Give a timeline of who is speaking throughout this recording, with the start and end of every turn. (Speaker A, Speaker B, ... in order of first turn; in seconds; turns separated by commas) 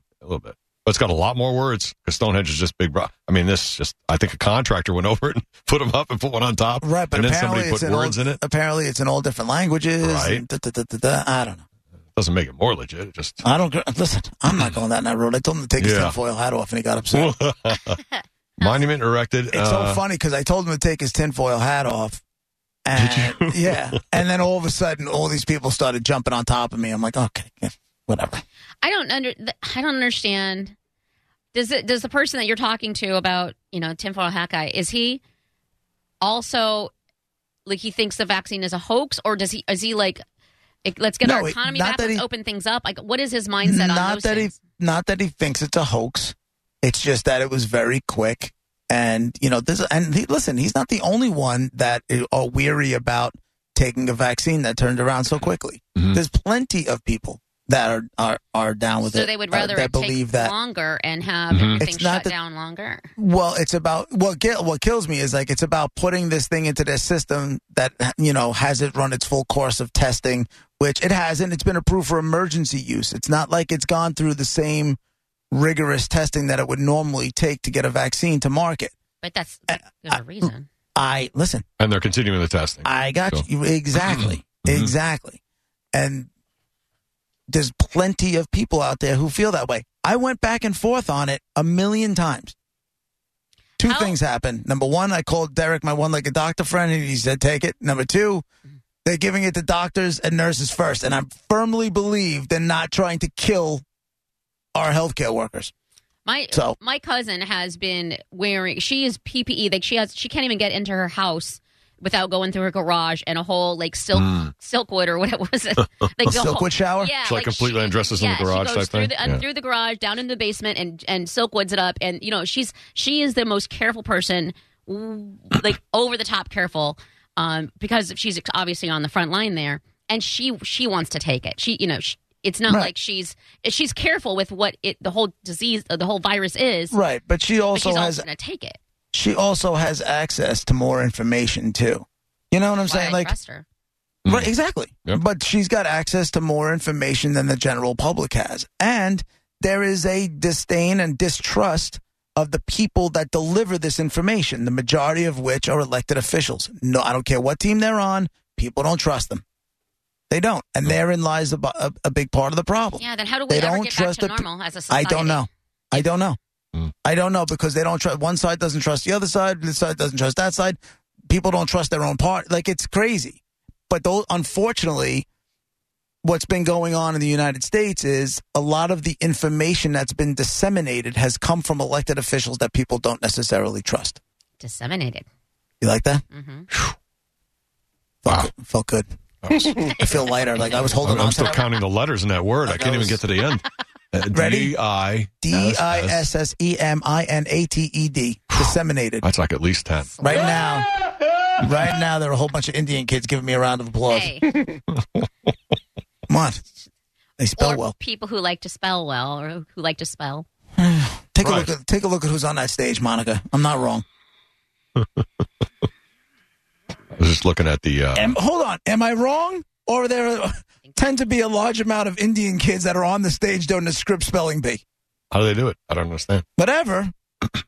Speaker A: 0.2-8.4, Speaker B: 6.8-11.6, Speaker A: 10.0-10.4, Speaker A: 12.1-13.4, Speaker B: 13.4-17.3, Speaker A: 14.5-14.7, Speaker A: 15.8-16.1, Speaker A: 17.1-18.0, Speaker C: 18.2-18.7, Speaker A: 18.6-20.0, Speaker B: 19.5-22.2, Speaker B: 22.8-28.4, Speaker A: 22.9-23.9, Speaker C: 28.8-30.7, Speaker C: 31.5-35.2, Speaker C: 36.2-36.9, Speaker C: 37.6-40.2, Speaker C: 40.8-44.6, Speaker B: 41.2-42.2, Speaker B: 43.6-60.5, Speaker C: 59.0-63.1, Speaker A: 61.5-61.9, Speaker B: 61.8-62.3, Speaker B: 63.2-75.0, Speaker B: 75.5-78.9, Speaker C: 79.2-80.7, Speaker B: 79.7-81.6, Speaker A: 81.8-83.4, Speaker B: 82.8-85.4, Speaker A: 84.0-84.9, Speaker B: 85.9-86.3, Speaker B: 87.5-92.5, Speaker B: 93.8-98.4, Speaker C: 93.8-94.2, Speaker B: 99.0-103.8, Speaker B: 104.7-105.7, Speaker C: 106.2-136.9, Speaker A: 114.2-114.5, Speaker B: 116.3-117.1, Speaker A: 117.2-119.4, Speaker B: 132.7-132.9, Speaker B: 136.9-138.3, Speaker C: 137.7-138.8, Speaker B: 139.1-143.3, Speaker C: 142.8-143.6, Speaker A: 144.2-144.5, Speaker B: 144.3-159.4, Speaker B: 160.3-166.4, Speaker C: 163.0-166.1, Speaker B: 167.0-175.2, Speaker B: 176.2-184.2, Speaker C: 184.6-185.2, Speaker B: 185.8-186.2, Speaker C: 186.3-186.7, Speaker B: 188.2-189.1, Speaker A: 189.4-189.9, Speaker B: 189.9-191.6, Speaker A: 190.9-196.3, Speaker B: 194.3-194.7, Speaker B: 195.4-199.2, Speaker A: 198.5-200.3, Speaker C: 200.0-200.7, Speaker B: 200.2-200.9, Speaker B: 201.6-204.4, Speaker C: 204.1-204.5, Speaker A: 204.9-205.2, Speaker B: 206.3-206.6, Speaker B: 207.4-207.9, Speaker C: 207.6-210.4, Speaker B: 210.8-214.0, Speaker A: 211.4-211.7, Speaker A: 214.9-215.2, Speaker A: 217.2-218.3, Speaker B: 218.1-224.8, Speaker C: 220.8-221.2, Speaker A: 225.3-226.4, Speaker B: 226.6-227.1